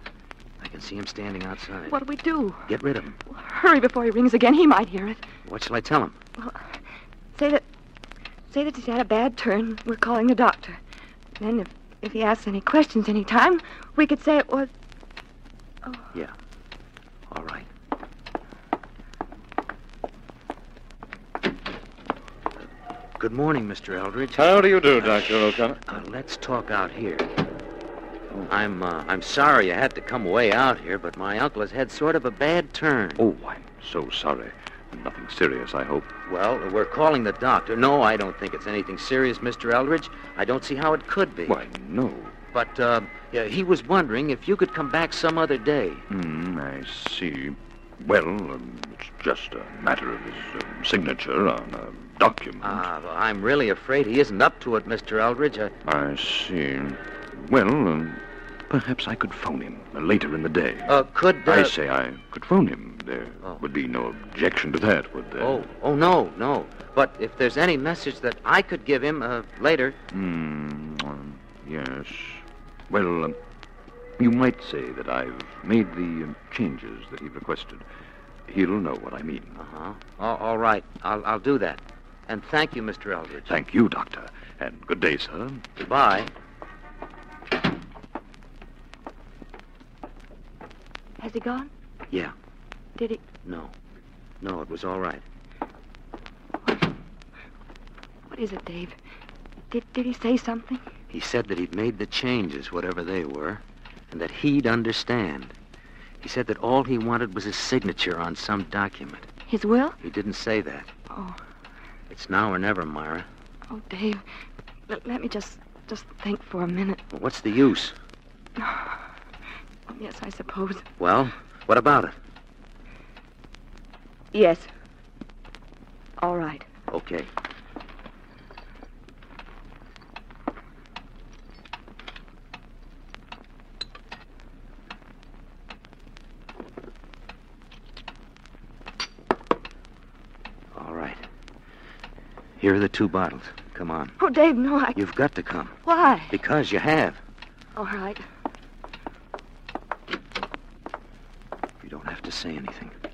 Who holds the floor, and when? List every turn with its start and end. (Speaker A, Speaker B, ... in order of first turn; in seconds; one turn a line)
Speaker A: 0.6-2.0
Speaker B: 1.9-2.7
Speaker A: 2.7-3.2
Speaker B: 3.3-5.2
Speaker A: 5.5-6.2
Speaker B: 6.4-6.7
Speaker B: 7.3-7.7
Speaker B: 8.5-10.8
Speaker B: 11.4-14.7
Speaker A: 17.3-17.7
Speaker A: 23.2-27.3
Speaker C: 24.4-25.8
Speaker A: 28.5-33.2
Speaker C: 33.2-36.1
Speaker A: 36.2-41.6
Speaker C: 41.5-42.4
Speaker A: 42.5-46.1
Speaker C: 46.1-52.8
Speaker A: 52.6-55.7
Speaker C: 55.9-65.7
Speaker A: 60.9-61.8
Speaker A: 65.4-70.0
Speaker C: 70.1-73.4
Speaker C: 74.2-77.9
Speaker C: 78.5-79.6
Speaker A: 79.5-83.6
Speaker C: 83.5-85.6
Speaker A: 85.8-86.3
Speaker B: 91.2-91.7
Speaker A: 93.4-93.7
Speaker A: 94.4-95.2
Speaker B: 98.3-99.0
Speaker B: 99.7-100.8
Speaker A: 101.1-105.5
Speaker A: 106.2-109.3
Speaker B: 109.5-110.0
Speaker A: 110.0-110.9
Speaker B: 111.1-111.4
Speaker A: 112.1-113.3
Speaker B: 113.7-114.2
Speaker B: 114.9-117.0
Speaker A: 117.1-118.0
Speaker B: 118.6-119.0
Speaker B: 119.9-120.9
Speaker A: 121.0-122.2
Speaker B: 124.3-124.7
Speaker B: 126.2-126.7
Speaker A: 126.9-127.3
Speaker A: 140.7-141.2
Speaker A: 142.6-144.2
Speaker B: 144.2-145.0
Speaker A: 144.9-145.8
Speaker B: 145.8-146.4
Speaker A: 146.3-147.2
Speaker B: 147.8-148.2
Speaker A: 151.8-152.9